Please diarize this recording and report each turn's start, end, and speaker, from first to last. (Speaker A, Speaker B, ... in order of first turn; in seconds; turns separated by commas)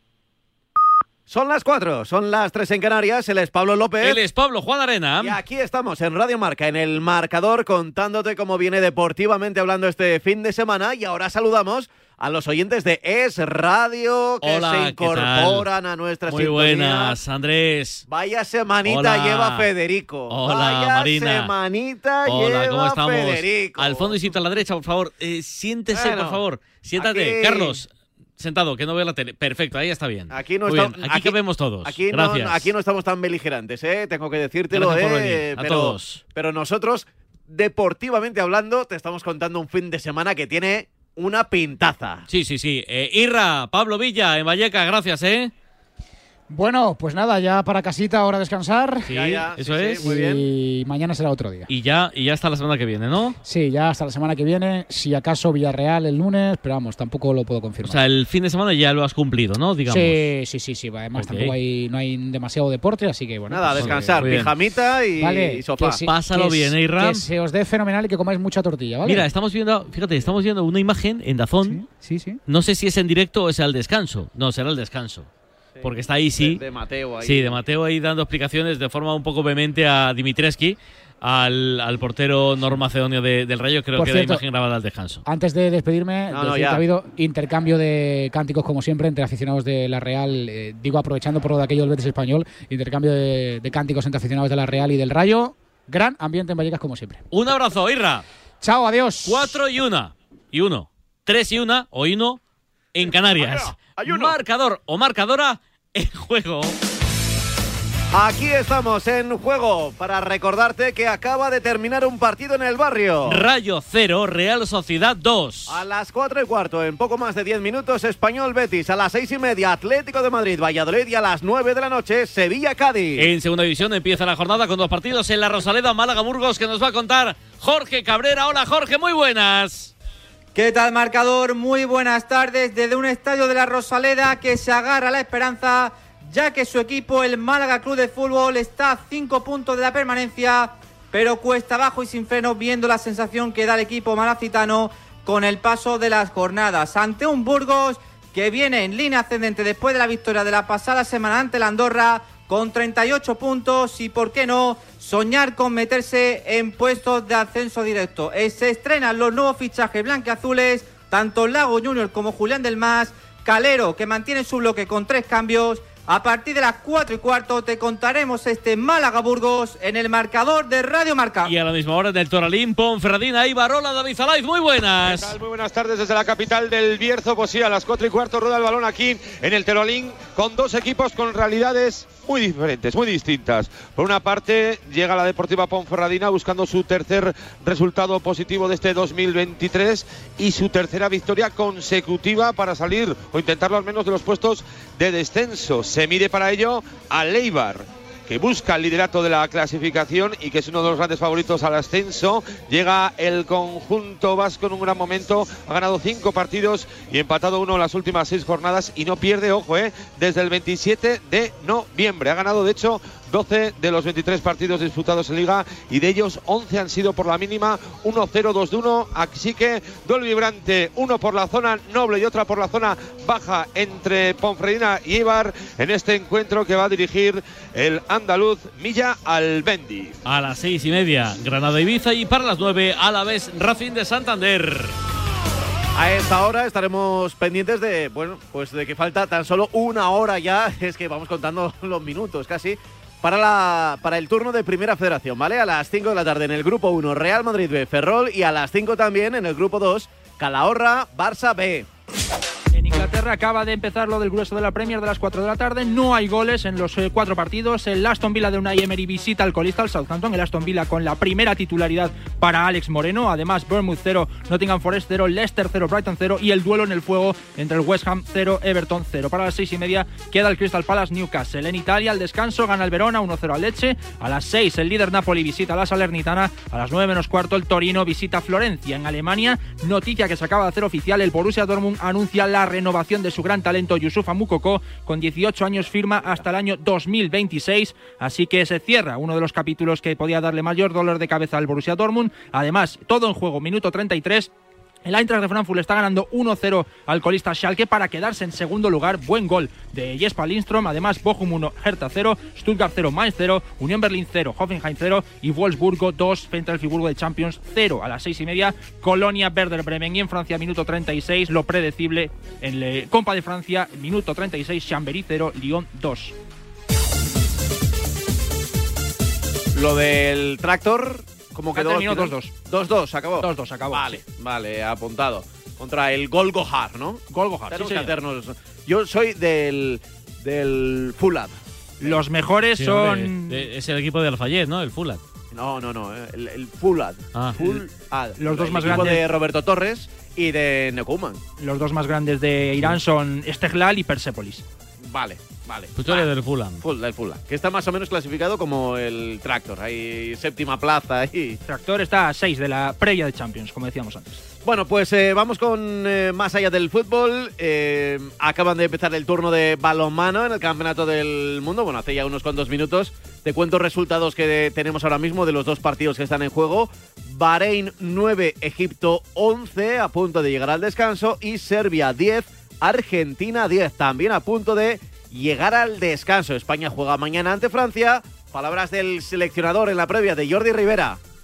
Speaker A: 1.3-4.2, Speaker B: 4.0-5.4, Speaker A: 5.2-17.2, Speaker B: 14.4-15.7, Speaker B: 16.3-18.1, Speaker A: 18.1-24.3, Speaker B: 18.8-19.7, Speaker B: 20.3-21.5, Speaker B: 22.2-32.7, Speaker A: 25.9-26.4, Speaker A: 27.0-27.8, Speaker A: 30.3-42.2, Speaker B: 34.7-36.2, Speaker B: 42.3-45.5, Speaker C: 46.5-49.1, Speaker B: 49.1-50.0, Speaker A: 49.1-50.5, Speaker C: 50.0-51.7, Speaker B: 51.7-53.4, Speaker C: 53.4-58.0, Speaker B: 57.8-60.2, Speaker C: 59.9-64.3, Speaker B: 61.1-61.5, Speaker A: 63.5-66.0, Speaker B: 63.7-64.5, Speaker C: 65.2-69.3, Speaker B: 66.0-67.3, Speaker B: 69.0-71.8, Speaker C: 71.6-72.4, Speaker B: 72.5-75.3, Speaker A: 75.8-77.6, Speaker B: 75.8-76.6, Speaker B: 77.2-85.2, Speaker C: 84.0-84.4, Speaker C: 85.2-97.2, Speaker A: 86.3-86.8, Speaker B: 97.3-98.2, Speaker C: 98.6-99.6, Speaker B: 99.2-102.4, Speaker B: 102.9-106.7, Speaker A: 103.1-104.3, Speaker A: 108.1-113.4, Speaker B: 113.2-115.8, Speaker A: 115.7-123.3, Speaker B: 123.2-129.9, Speaker D: 130.5-171.5, Speaker B: 171.4-175.3, Speaker E: 175.0-230.2, Speaker B: 230.2-235.0, Speaker A: 235.9-251.9, Speaker F: 252.7-294.5, Speaker F: 295.0-316.3, Speaker A: 319.7-331.5, Speaker F: 321.7-322.5, Speaker F: 323.4-324.2, Speaker F: 327.3-328.1, Speaker F: 332.0-333.6, Speaker B: 332.8-335.2, Speaker A: 335.5-341.4, Speaker F: 338.4-339.2, Speaker F: 341.6-344.6, Speaker A: 345.0-346.3, Speaker B: 345.9-346.8, Speaker A: 346.8-351.6, Speaker F: 351.6-354.4, Speaker A: 354.6-381.2